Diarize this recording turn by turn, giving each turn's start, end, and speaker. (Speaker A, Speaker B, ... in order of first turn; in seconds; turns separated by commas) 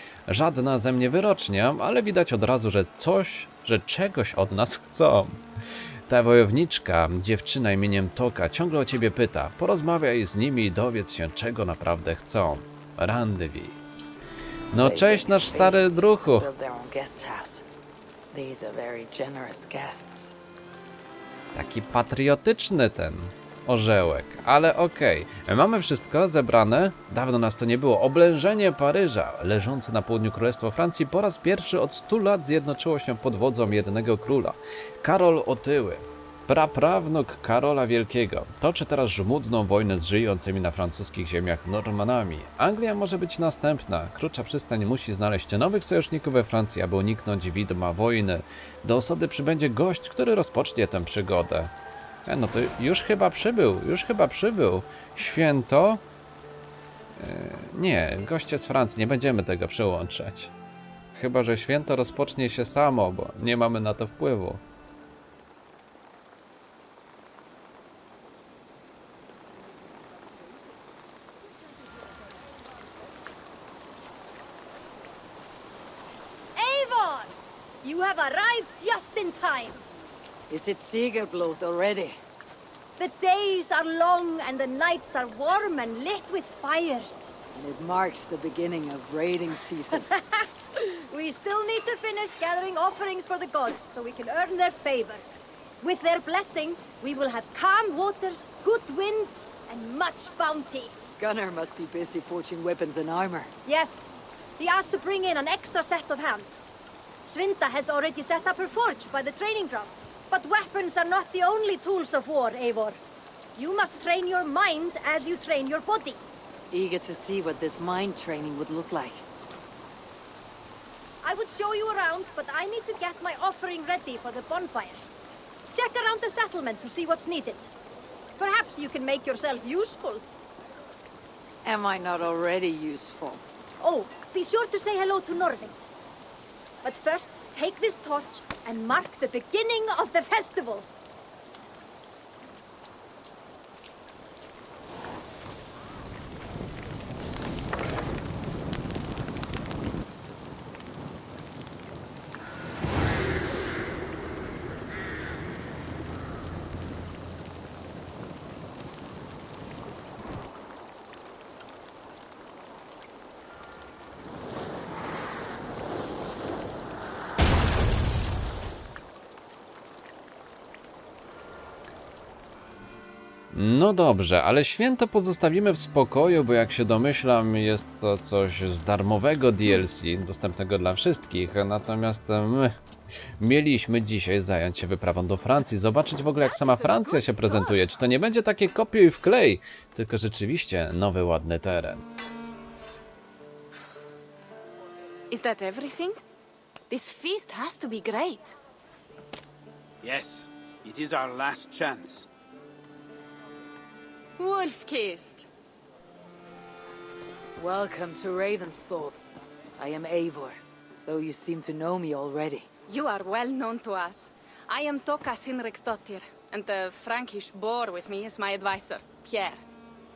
Speaker A: 0.3-5.4, Speaker A: 6.1-13.8, Speaker A: 14.7-16.5, Speaker B: 14.7-17.6, Speaker B: 18.3-20.3, Speaker A: 21.5-51.7, Speaker A: 52.2-56.0, Speaker A: 57.1-60.5, Speaker A: 61.1-64.6, Speaker C: 76.5-79.8, Speaker B: 80.5-82.2, Speaker C: 83.0-87.3, Speaker B: 87.5-90.1, Speaker C: 90.0-95.2, Speaker C: 95.8-100.9, Speaker B: 101.2-103.5, Speaker C: 103.6-106.7, Speaker C: 107.2-113.0, Speaker C: 113.5-116.2, Speaker B: 116.7-119.2, Speaker C: 121.2-125.0, Speaker C: 125.7-127.7, Speaker C: 128.4-130.2, Speaker B: 131.6-133.4, Speaker C: 133.8-135.8, Speaker C: 136.8-140.9, Speaker A: 173.5-182.8, Speaker A: 183.4-192.0, Speaker D: 186.5-187.7, Speaker D: 195.3-196.2, Speaker D: 196.9-198.6, Speaker E: 200.0-202.3, Speaker D: 204.4-205.5, Speaker B: 207.6-209.2, Speaker B: 209.8-212.7, Speaker D: 212.9-219.6